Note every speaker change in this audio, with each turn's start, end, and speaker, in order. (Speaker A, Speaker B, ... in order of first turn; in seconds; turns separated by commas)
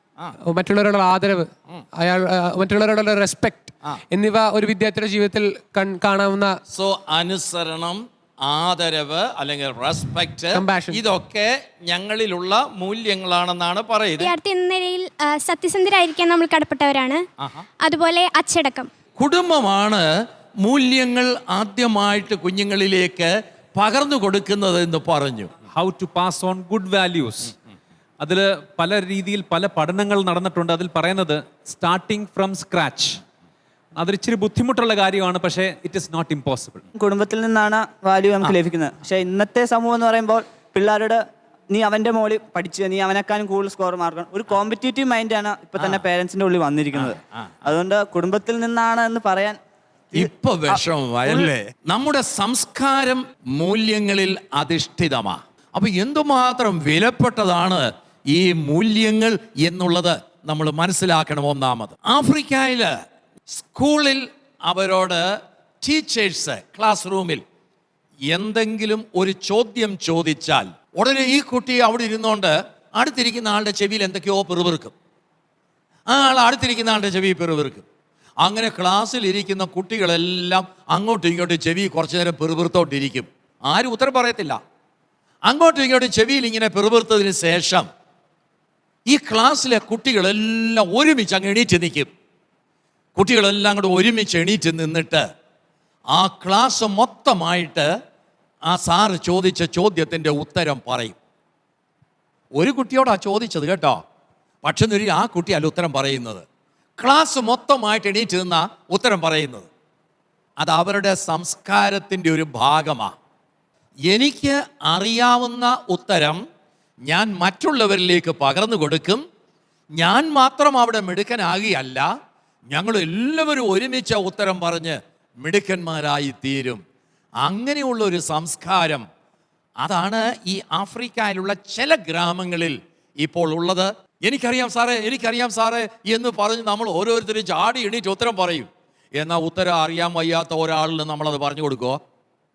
Speaker A: 0.4-6.5, Speaker B: 6.7-14.3, Speaker A: 10.5-11.0, Speaker C: 14.2-17.2, Speaker C: 17.8-18.9, Speaker B: 19.2-20.1, Speaker B: 20.6-25.5, Speaker D: 25.7-27.5, Speaker D: 28.2-33.2, Speaker D: 34.0-36.8, Speaker E: 37.0-49.6, Speaker E: 50.1-51.5, Speaker B: 50.1-62.9, Speaker B: 63.5-65.3, Speaker B: 65.8-67.4, Speaker B: 68.3-74.9, Speaker B: 76.1-77.8, Speaker B: 78.4-84.6, Speaker B: 85.5-87.9, Speaker B: 89.1-92.1, Speaker B: 93.1-95.2, Speaker B: 96.1-97.9, Speaker B: 98.7-101.2, Speaker B: 102.5-104.0, Speaker B: 104.6-106.4, Speaker B: 107.0-109.7, Speaker B: 110.6-113.1, Speaker B: 114.1-116.4, Speaker B: 117.1-119.2, Speaker B: 120.0-122.1, Speaker B: 122.7-126.8, Speaker B: 127.4-129.1, Speaker B: 129.8-142.0